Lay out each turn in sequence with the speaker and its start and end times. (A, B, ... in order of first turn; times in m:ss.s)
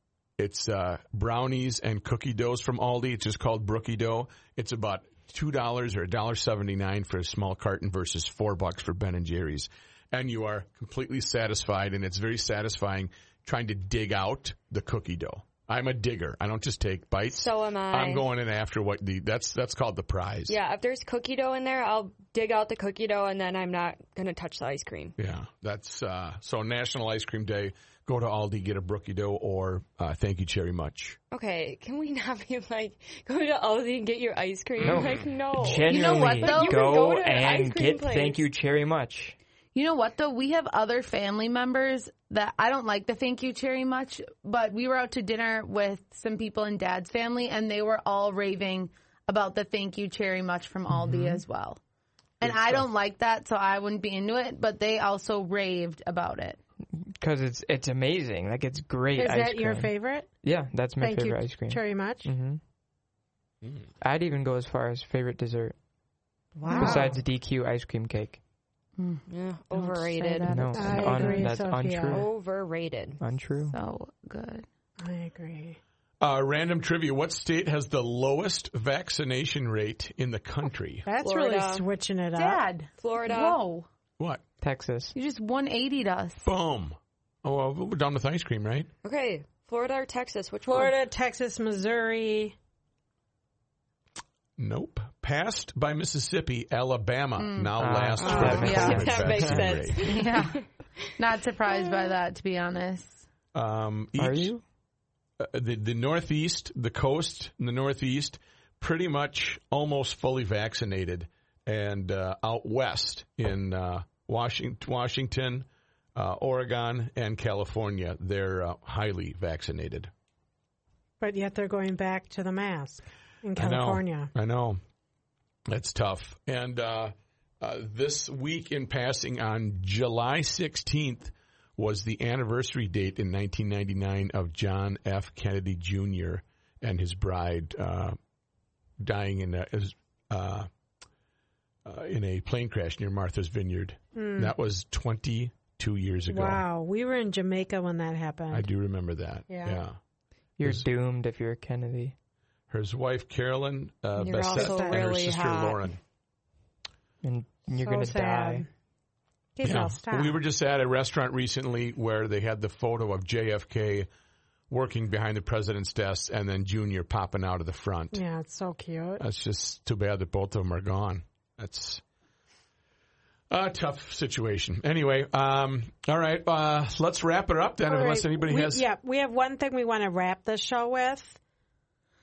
0:00.4-0:20.6 A
0:17.3-0:18.3 B
0:20.5-0:25.2 B
0:25.2-0:31.2 A
0:31.3-0:38.4 B
0:34.8-0:39.4 C
0:35.9-0:37.0 D
0:39.8-0:51.8 D
0:50.9-0:51.4 C
0:52.4-0:56.6 D
0:52.4-0:52.9 A
0:56.9-1:02.6 C
0:59.2-1:00.3 E
1:01.0-1:02.3 E
1:04.0-1:05.8 C
1:06.6-1:07.2 E
1:06.7-1:07.1 D
1:06.8-1:08.4 C
1:09.0-1:11.5 D
1:09.3-1:10.7 B
1:10.5-1:12.3 C
1:10.7-1:12.2 E
1:12.1-1:13.2 B
1:13.2-1:13.8 C
1:13.7-1:14.6 D
1:15.0-1:15.8 E
1:16.2-1:21.1 A
1:21.1-1:22.7 E
1:21.2-1:21.8 B
1:22.4-1:23.9 D
1:23.0-1:23.6 B
1:24.6-1:25.2 C
1:25.2-1:26.4 D
1:26.4-1:28.9 A
1:29.0-1:31.0 B
1:30.6-1:32.6 E
1:34.6-1:40.2 A
1:37.4-1:37.7 D
1:37.8-1:39.8 C
1:38.2-1:40.6 B
1:38.3-1:39.2 D
1:38.3-1:38.8 E
1:40.0-1:40.6 D
1:41.2-1:43.2 D
1:41.7-1:42.0 B
1:43.5-1:44.5 A
1:44.2-1:44.6 C
1:45.4-2:00.1 A
2:01.2-2:04.3 E
2:03.6-2:04.8 A
2:05.7-2:18.2 A
2:19.0-2:20.7 A
2:21.8-2:26.6 A
2:24.2-2:24.5 E
2:26.3-2:28.7 E
2:28.5-2:30.0 A
2:29.5-2:29.8 E
2:30.6-2:32.2 C
2:30.6-2:30.9 A
2:32.7-2:36.0 A
2:34.2-2:35.9 B
2:34.4-2:35.0 E
2:37.2-2:38.6 C
2:37.8-2:38.7 E
2:39.6-2:40.4 E
2:39.6-2:44.1 A
2:44.7-2:48.2 A
2:48.1-2:49.2 E
2:49.2-2:52.0 A
2:53.5-2:58.8 A
2:57.9-3:01.4 E